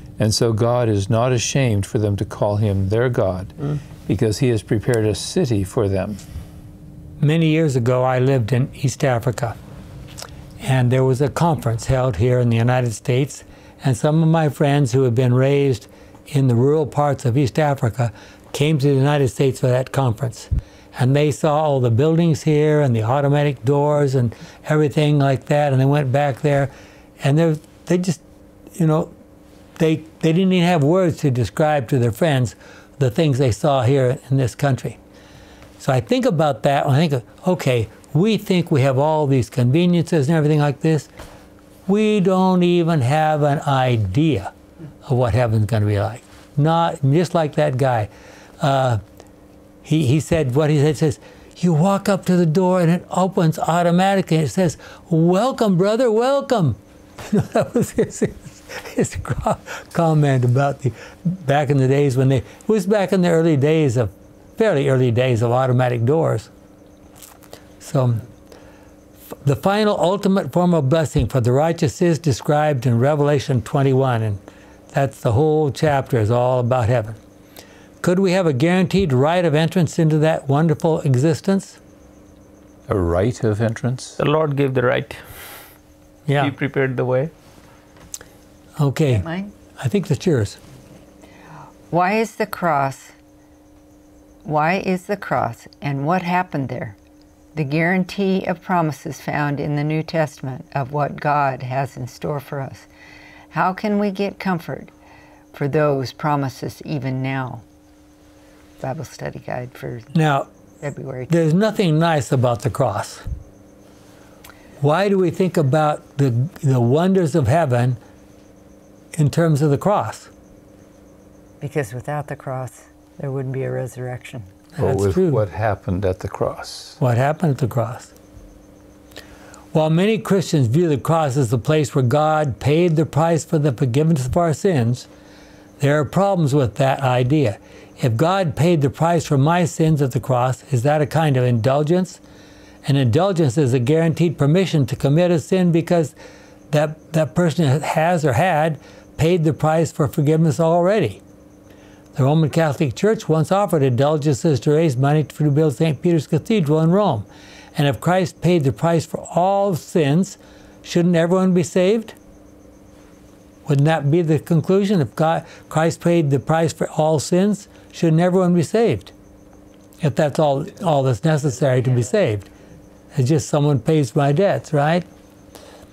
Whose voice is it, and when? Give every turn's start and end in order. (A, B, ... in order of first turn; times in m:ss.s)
0:00.2-0:03.5 A
0:04.1-0:06.2 A
0:07.2-0:09.6 B
0:10.6-0:28.2 B
0:28.8-0:29.1 B
0:29.8-0:35.0 B
0:35.8-0:41.1 B
0:41.9-0:44.5 B
0:45.0-0:48.1 B
0:48.6-0:49.0 B
0:49.8-1:06.5 B
1:07.8-1:08.2 B
1:09.4-1:14.4 B
1:14.9-1:17.2 B
1:18.0-1:21.8 B
1:22.9-1:24.2 A
1:24.2-1:25.2 C
1:26.3-1:26.5 B
1:26.4-1:27.3 C
1:28.8-1:29.2 B
1:29.1-1:29.5 D
1:29.8-1:30.6 B
1:31.9-1:33.1 D
1:34.4-1:37.0 D
1:37.6-1:42.9 D
1:43.5-1:44.9 D
1:45.5-1:47.6 D
1:48.8-1:50.1 D
1:50.1-1:50.5 B
1:50.8-1:51.3 D
1:51.3-1:53.2 B
1:54.8-1:58.0 B
1:59.2-2:00.3 B
2:01.6-2:04.5 D
2:04.8-2:05.4 B
2:04.8-2:07.0 A
2:07.0-2:08.1 B
2:09.7-2:15.1 B
2:15.8-2:22.2 B
2:22.8-2:26.2 B
2:26.7-2:31.2 B
2:32.2-2:42.2 B
2:43.7-2:49.1 B
2:50.0-2:52.5 B
2:53.1-2:55.0 B